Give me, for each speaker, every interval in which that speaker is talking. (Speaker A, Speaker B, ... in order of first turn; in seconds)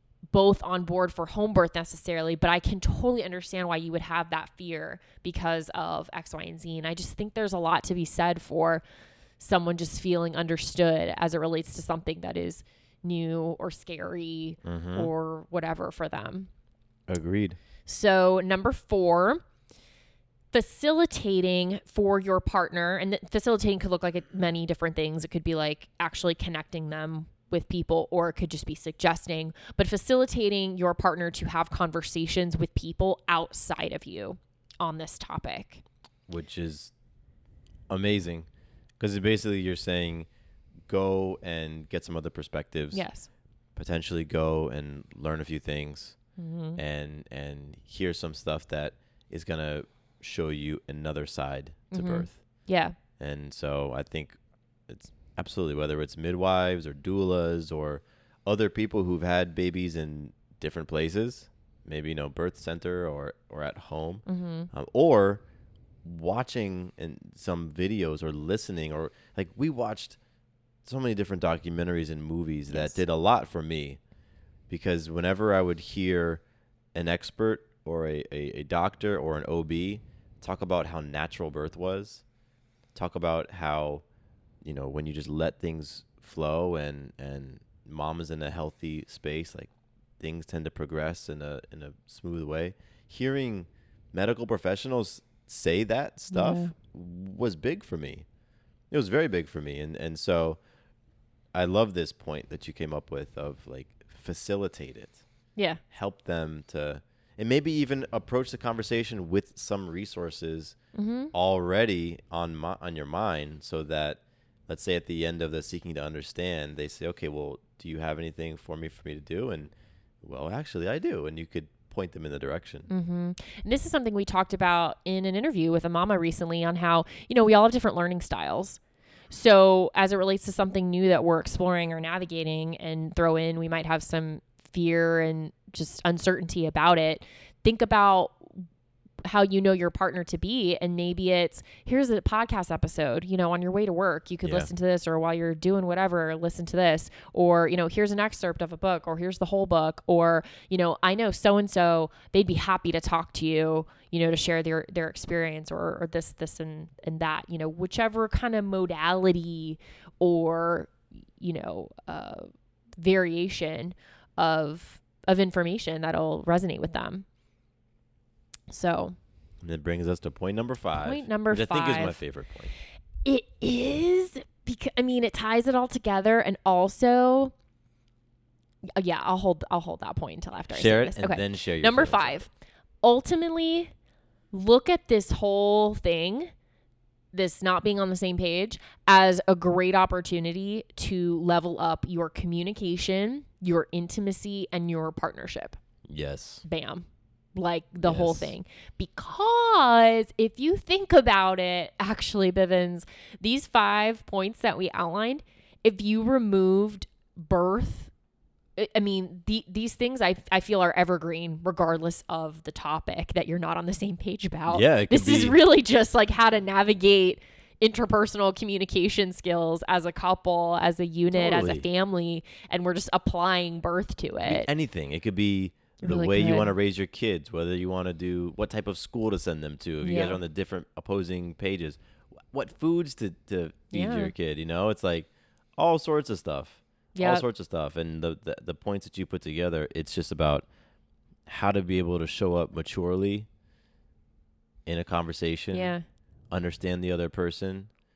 Speaker A: 0.3-8.8, 9.4-16.5, 17.9-19.4, 20.5-35.8, 42.9-43.3, 46.4-46.8, 51.9-53.0, 64.2-64.7, 72.7-73.0, 96.3-96.7, 105.5-105.8, 110.9-111.3, 122.9-138.6, 139.2-167.2, 168.7-169.2, 171.0-172.2, 173.2-177.5, 178.9-182.5, 183.0-183.9, 184.5-186.5, 187.3-195.8, 196.6-208.1, 208.8-224.7, 226.0-226.7, 230.0-230.4, 233.9-234.3, 237.1-237.4, 245.7-246.0
Speaker B: 14.6-15.1, 17.1-17.6, 36.3-36.9, 37.9-40.3, 40.9-43.1, 43.7-65.4, 66.0-70.2, 70.8-74.0, 74.7-76.4, 76.9-82.2, 82.9-84.0, 84.6-98.3, 98.9-100.6, 101.5-105.2, 105.9-122.9, 144.4-144.7, 169.6-172.7, 180.7-182.5, 196.0-196.6, 198.0-198.5, 214.7-215.6, 221.3-221.8, 224.4-240.7, 241.4-243.5, 244.8-246.0, 246.5-247.9